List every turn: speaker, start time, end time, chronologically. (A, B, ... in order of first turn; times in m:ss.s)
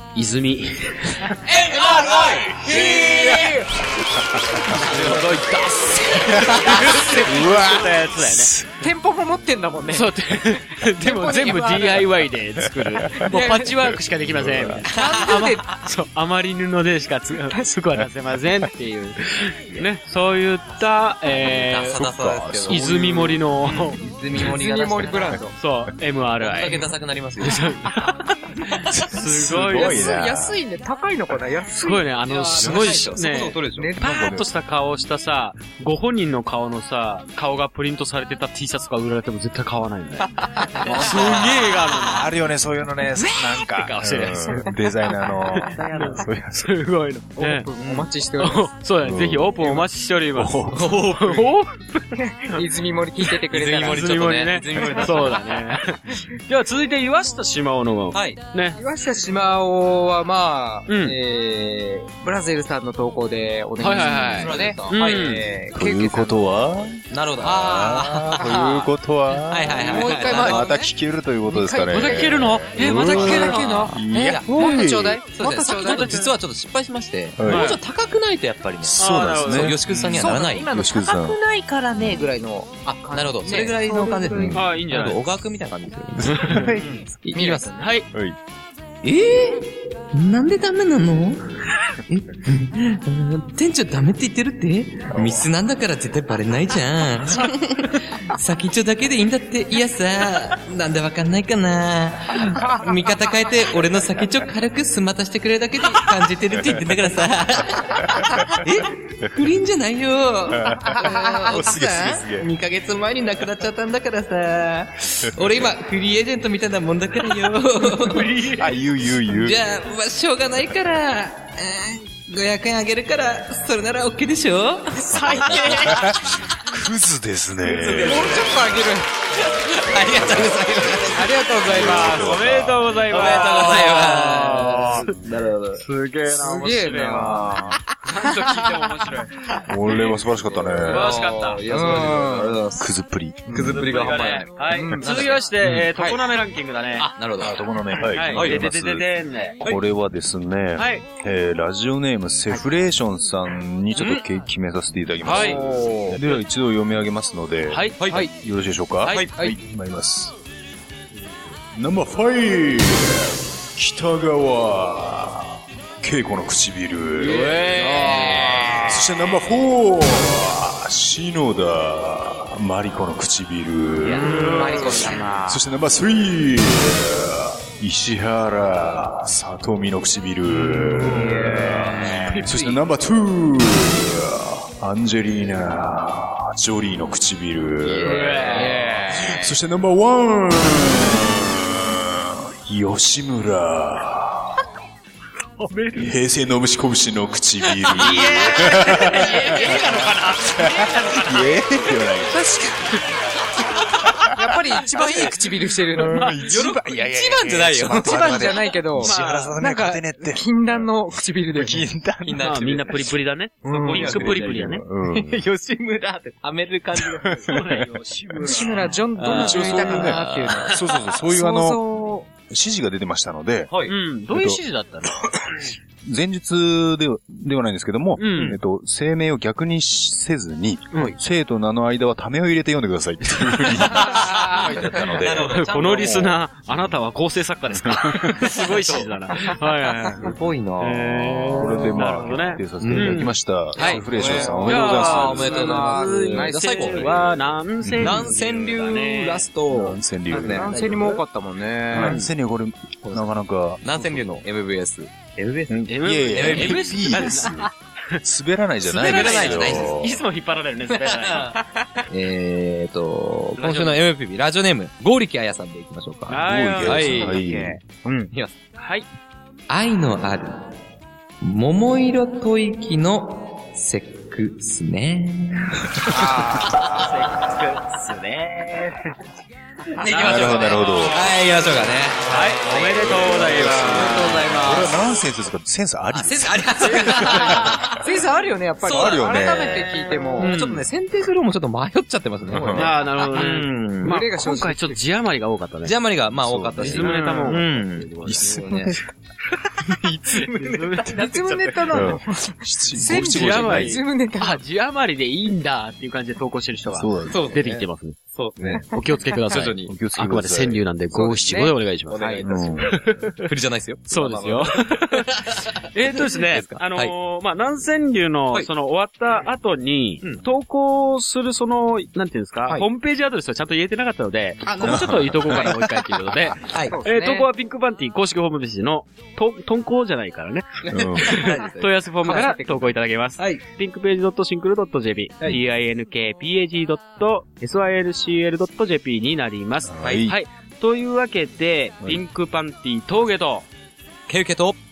0:00.1-0:01.3 A
0:01.4-0:03.5 B
0:01.7-0:05.1 C
0:02.8-0:03.1 A
0:04.7-0:07.0 B
0:04.8-0:08.5 A
0:06.3-0:08.8 C
0:08.8-0:10.1 D
0:09.9-0:22.0 A
0:11.0-0:12.0 D
0:12.7-0:13.3 C
0:13.2-0:13.7 D
0:13.8-0:14.9 C
0:14.8-0:15.7 D
0:15.0-0:15.9 B
0:21.3-0:25.4 B
0:22.0-0:23.7 C
0:22.7-0:24.0 A
0:24.4-0:25.5 D
0:25.6-0:30.1 A
0:26.4-0:27.9 B
0:28.5-0:29.0 B
0:28.9-0:30.6 C
0:29.7-0:32.7 D
0:31.8-0:42.3 A
0:32.3-0:33.9 B
0:32.6-0:32.9 C
0:33.8-0:34.0 D
0:34.0-0:34.5 C
0:40.8-0:41.4 B
0:40.8-0:46.7 C
0:43.3-0:44.8 A
0:45.4-0:47.7 A
0:45.7-0:46.2 B
0:47.4-0:48.7 D
0:47.8-0:48.1 B
0:48.4-0:52.6 A
0:49.0-0:51.0 C
0:50.7-0:51.5 B
0:52.3-0:55.3 D
0:53.5-0:55.6 B
0:53.7-0:58.8 A
0:58.1-0:58.4 B
0:58.8-1:06.6 D
1:00.9-1:01.2 A
1:03.8-1:05.4 A
1:03.8-1:05.6 B
1:05.7-1:15.2 C
1:07.1-1:08.9 B
1:09.5-1:10.8 B
1:09.6-1:10.9 D
1:11.4-1:16.2 D
1:11.9-1:14.0 A
1:14.1-1:20.7 B
1:15.7-1:16.3 A
1:17.4-1:17.8 C
1:17.4-1:17.8 A
1:18.8-1:21.4 C
1:19.0-1:19.8 A
1:20.1-1:24.6 D
1:22.8-1:27.7 B
1:24.5-1:25.2 A
1:26.2-1:26.8 A
1:26.3-1:27.0 C
1:26.8-1:27.9 D
1:27.8-1:28.1 A
1:29.0-1:58.5 B
1:35.1-1:35.5 C
1:42.6-1:42.9 D
1:46.5-1:47.2 C
1:48.0-1:48.7 C
1:50.6-1:52.5 C
1:50.6-1:51.8 D
1:55.2-1:55.7 C
1:58.0-1:58.8 A
1:58.5-1:59.6 C
1:59.1-2:06.0 B
2:05.1-2:06.1 A
2:05.1-2:08.5 C
2:07.6-2:08.8 B
2:08.0-2:09.1 D
2:09.4-2:11.3 B
2:10.1-2:11.0 C
2:11.0-2:12.4 D
2:11.6-2:13.0 C
2:12.1-2:15.1 A
2:13.1-2:15.8 B
2:15.8-2:19.3 A
2:16.3-2:18.9 D
2:17.1-2:17.5 B
2:19.6-2:21.1 C
2:20.3-2:22.9 B
2:20.8-2:22.1 A
2:21.7-2:22.6 D
2:22.8-2:23.9 C
2:23.5-2:23.8 D
2:23.5-2:25.4 B
2:23.7-2:27.1 A
2:24.6-2:25.3 D
2:25.6-2:25.9 C
2:27.0-2:28.6 B
2:27.4-2:29.1 C
2:28.1-2:29.6 A
2:29.6-2:40.3 C
2:30.8-2:31.1 A
2:35.2-2:35.7 A
2:35.4-2:36.2 D
2:37.7-2:38.0 A
2:38.0-2:38.3 B
2:39.0-2:39.3 B
2:41.7-2:47.7 C
2:47.2-2:49.0 A
2:47.2-2:48.8 B
2:47.7-2:48.8 D
2:48.8-3:14.6 C
2:54.0-2:55.1 B
2:54.1-2:55.6 D
2:54.2-2:55.2 A
3:01.0-3:01.9 D
3:02.1-3:02.8 A
3:08.0-3:09.3 A
3:08.0-3:09.4 D
3:15.6-3:16.2 A
3:15.9-3:22.9 C
3:17.6-3:22.0 A
3:18.2-3:18.6 B
3:22.3-3:22.8 D
3:23.9-3:25.3 C
3:24.3-3:26.3 D
3:25.9-3:32.5 C
3:26.1-3:26.5 A
3:26.4-3:28.6 B
3:27.9-3:31.8 D
3:29.0-3:29.6 A
3:32.2-3:37.8 B
3:32.4-3:34.8 A
3:33.6-3:34.2 D
3:34.1-3:35.4 C
3:37.0-3:37.9 C
3:37.5-3:39.0 A
3:38.4-3:42.3 D
3:38.4-3:40.8 B
3:39.2-3:41.8 C
3:42.4-3:43.7 C
3:43.7-3:44.0 B
3:43.8-3:45.7 A
3:44.3-3:44.6 C
3:46.0-3:55.6 C
3:48.2-3:48.6 A
3:48.3-3:48.6 B
3:53.2-3:54.1 A
3:53.9-3:54.9 D
3:54.2-3:56.4 B
3:55.3-4:04.0 A
3:57.9-3:58.3 C
3:58.4-3:59.1 B
4:00.1-4:02.0 B
4:01.6-4:05.8 C
4:02.8-4:07.4 B
4:03.8-4:07.2 D
4:04.6-4:09.5 A
4:07.8-4:08.3 C
4:08.0-4:11.2 B
4:09.7-4:11.1 C
4:10.3-4:12.2 D
4:11.9-4:14.4 C
4:11.9-4:12.3 A
4:13.0-4:13.3 B
4:13.8-4:17.7 B
4:15.7-4:20.2 C
4:15.9-4:18.2 A
4:18.8-4:21.6 A
4:18.9-4:20.2 B
4:20.9-4:27.8 B
4:23.6-4:24.1 A
4:26.3-4:27.4 A
4:26.4-4:27.8 C
4:27.1-4:28.3 D
4:28.3-4:28.6 B
4:28.8-4:29.1 A
4:29.7-4:30.8 B
4:31.4-4:37.1 B
4:36.1-4:37.1 D
4:36.8-4:39.1 A
4:40.0-4:45.1 B
4:40.0-4:41.5 A
4:40.2-4:41.2 C
4:42.2-4:44.4 A
4:43.3-4:44.8 D
4:44.6-4:48.0 C
4:46.1-4:48.0 B
4:46.8-4:50.5 D
4:48.8-4:49.9 C
4:48.8-4:54.2 B
4:50.4-4:50.8 A
4:52.5-4:53.0 C
4:52.7-4:56.0 A
4:54.0-4:55.0 D
4:55.8-4:59.0 B
4:56.3-4:57.2 C
4:56.8-4:58.6 A
4:56.8-4:57.6 D
4:58.2-4:59.0 C
4:59.8-5:01.3 B
5:00.3-5:02.1 A
5:01.1-5:04.6 D
5:01.9-5:04.0 C
5:03.0-5:08.2 A
5:06.8-5:07.4 C
5:07.2-5:09.0 B
5:08.9-5:13.5 A
5:09.5-5:09.9 B
5:09.8-5:10.8 C
5:11.1-5:12.4 D
5:12.1-5:17.1 B
5:12.4-5:13.0 C
5:14.1-5:43.7 A
5:24.6-5:25.6 B
5:24.8-5:26.0 C
5:26.6-5:27.0 B
5:26.9-5:27.5 D
5:30.8-5:33.6 B
5:30.9-5:31.4 C
5:39.8-5:40.4 C
5:44.3-5:44.8 B